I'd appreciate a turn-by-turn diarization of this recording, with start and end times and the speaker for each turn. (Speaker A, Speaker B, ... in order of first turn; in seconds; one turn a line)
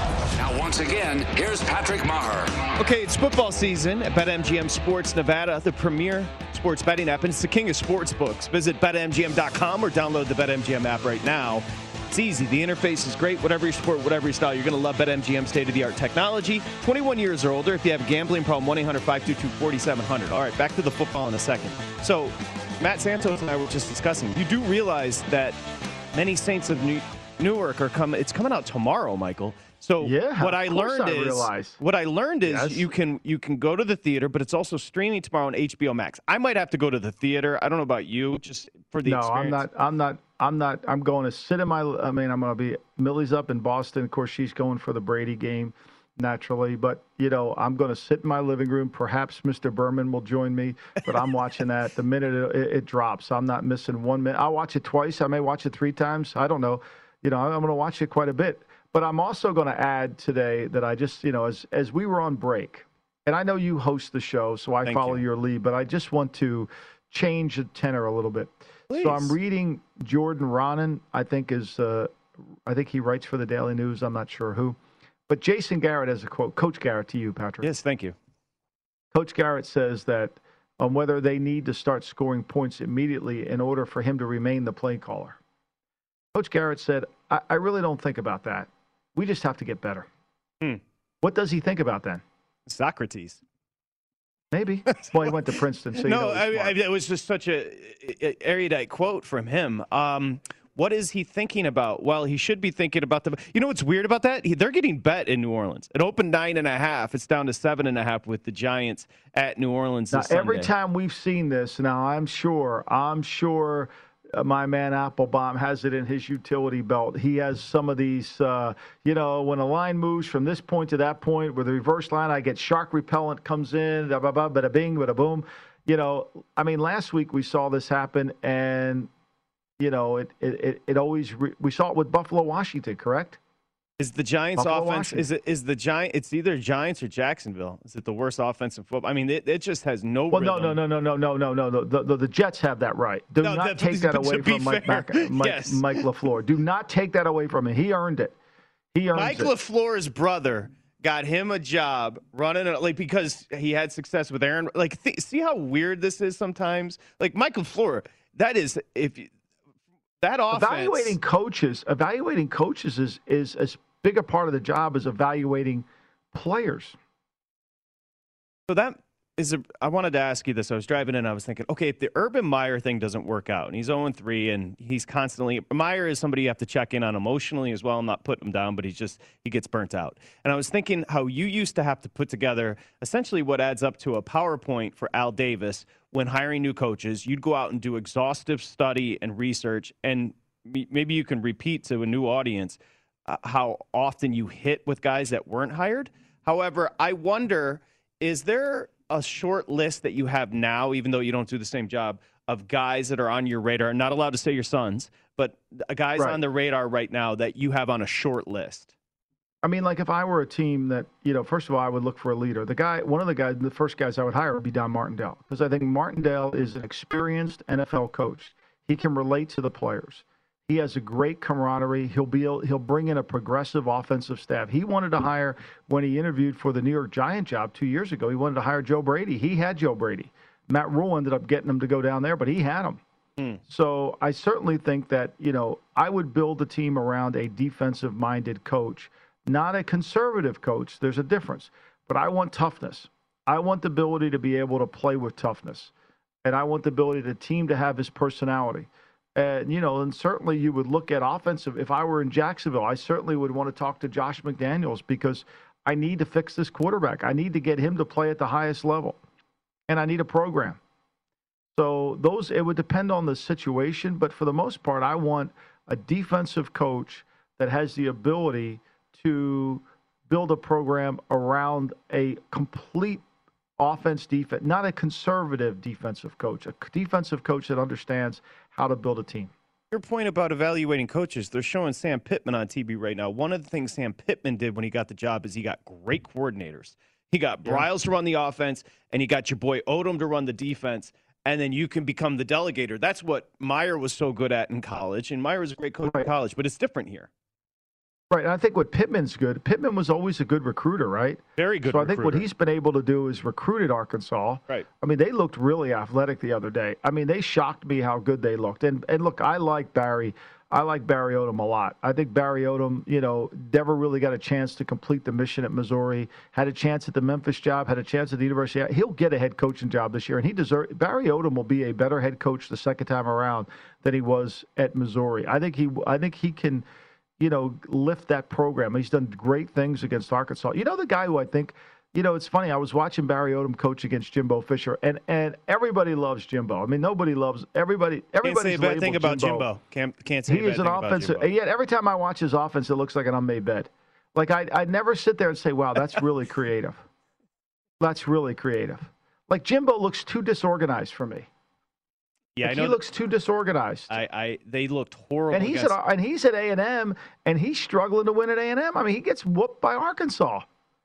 Speaker A: 0.4-2.7
Speaker B: 2.8-25.6
Speaker B: 26.1-39.6
Speaker C: 30.0-31.8
Speaker C: 32.5-32.8
Speaker C: 39.0-74.8
Speaker B: 64.8-65.2
Speaker B: 68.9-69.4
Speaker C: 75.3-77.7
Speaker B: 77.6-78.2
Speaker C: 79.1-85.4
Speaker C: 86.3-90.1
Speaker C: 91.2-92.2
Speaker B: 92.7-93.4
Speaker C: 94.5-96.8
Speaker B: 96.0-110.7
Speaker C: 110.1-129.1
Speaker C: 129.8-133.4
Speaker B: 134.0-140.8
Speaker C: 134.6-135.3
Speaker C: 140.3-148.3
Speaker B: 143.4-146.0
Speaker C: 148.9-149.5
Speaker B: 149.2-159.3
Speaker B: 160.2-161.2
Speaker C: 160.5-167.0
Speaker B: 168.7-208.9
Speaker C: 209.6-233.0
Speaker C: 233.7-245.9
Speaker C: 246.4-259.2
Speaker C: 259.9-260.8
Speaker C: 261.8-273.2
Speaker C: 273.8-279.5
Speaker B: 279.9-297.3
Speaker C: 298.3-326.9
Speaker B: 301.6-302.5
Speaker C: 327.4-339.7
Speaker B: 338.4-341.5
Speaker C: 340.5-347.0
Speaker C: 348.0-351.5
Speaker B: 352.6-353.0
Speaker C: 352.6-354.1
Speaker B: 354.1-356.0
Speaker C: 355.5-360.6